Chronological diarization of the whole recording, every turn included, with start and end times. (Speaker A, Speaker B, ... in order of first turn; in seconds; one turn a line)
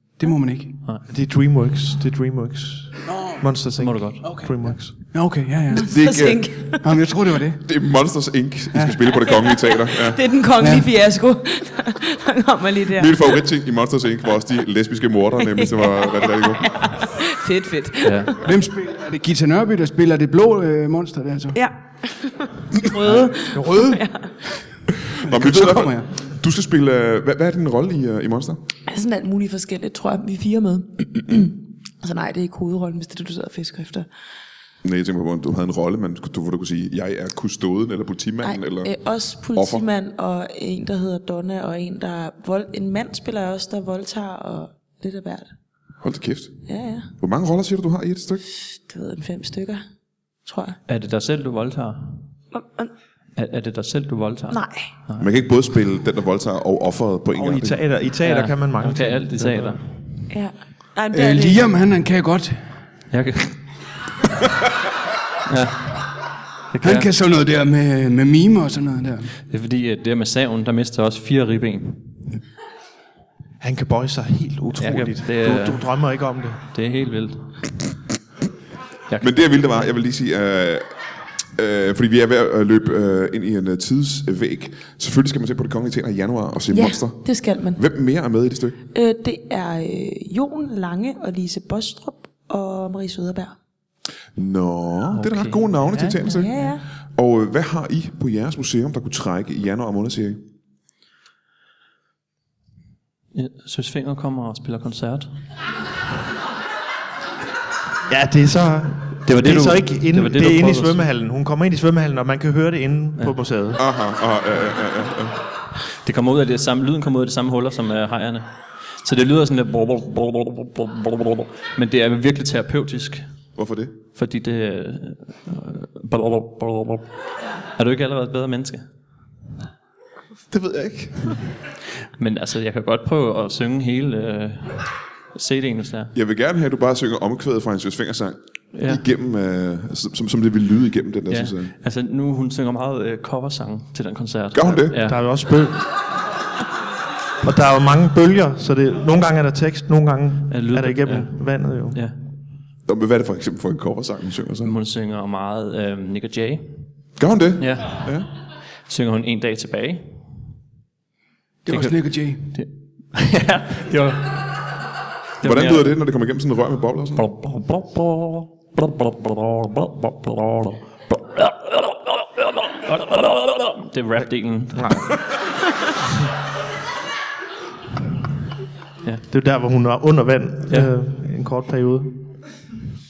Speaker A: 0.2-0.8
Speaker B: 1.1-4.9
Speaker A: 3.0-3.5
Speaker C: 3.8-4.3
Speaker A: 4.2-4.5
Speaker A: 5.1-5.9
Speaker D: 5.7-6.9
Speaker E: 5.8-6.7
Speaker A: 6.8-7.6
Speaker E: 7.6-10.2
Speaker A: 8.7-9.0
Speaker D: 9.2-13.3
Speaker A: 10.6-10.9
Speaker E: 12.9-16.9
Speaker D: 15.5-18.4
Speaker C: 18.0-18.3
Speaker A: 18.4-21.6
Speaker D: 21.5-24.6
Speaker A: 23.2-24.0
Speaker E: 25.0-28.6
Speaker A: 25.2-26.1
Speaker D: 28.9-34.1
Speaker E: 34.8-38.9
Speaker D: 38.4-45.5
Speaker E: 39.5-39.8
Speaker E: 46.0-46.6
Speaker D: 46.7-47.1
Speaker E: 47.2-48.4
Speaker D: 48.6-49.8
Speaker D: 50.4-50.8
Speaker C: 50.9-52.3
Speaker D: 52.5-52.9
Speaker C: 53.4-55.3
Speaker D: 54.5-54.9
Speaker E: 55.2-57.8
Speaker B: 57.3-59.8
Speaker C: 58.2-59.8
Speaker D: 60.3-61.7
Speaker A: 61.1-62.7
Speaker C: 63.1-63.6
Speaker C: 65.5-67.1
Speaker A: 66.8-69.3
Speaker C: 69.5-72.3
Speaker B: 73.6-76.6
Speaker C: 74.8-75.9
Speaker C: 76.7-77.5
Speaker E: 79.2-80.9
Speaker E: 81.5-88.8
Speaker D: 86.7-87.8
Speaker D: 88.9-93.5
Speaker E: 94.3-96.5
Speaker C: 95.1-96.3
Speaker D: 96.2-96.8
Speaker E: 97.2-100.4
Speaker C: 103.3-105.3
Speaker B: 108.1-113.8
Speaker C: 109.2-111.0
Speaker E: 113.8-115.4
Speaker C: 116.0-123.2
Speaker E: 123.6-123.9
Speaker C: 124.1-127.0
Speaker C: 127.8-128.8
Speaker E: 130.5-131.4
Speaker C: 132.2-136.1
Speaker E: 136.1-141.7
Speaker C: 138.7-139.0
Speaker C: 141.3-145.2
Speaker E: 144.5-144.9
Speaker B: 144.9-145.9
Speaker B: 147.4-152.0
Speaker C: 150.5-151.3
Speaker C: 151.9-152.2
Speaker E: 152.8-154.7
Speaker C: 154.6-156.9
Speaker E: 157.2-158.3
Speaker C: 157.6-160.3
Speaker A: 161.6-162.4
Speaker C: 161.7-164.7
Speaker C: 165.4-166.0
Speaker E: 165.4-167.2
Speaker C: 167.1-175.2
Speaker B: 174.7-175.1
Speaker B: 179.3-182.3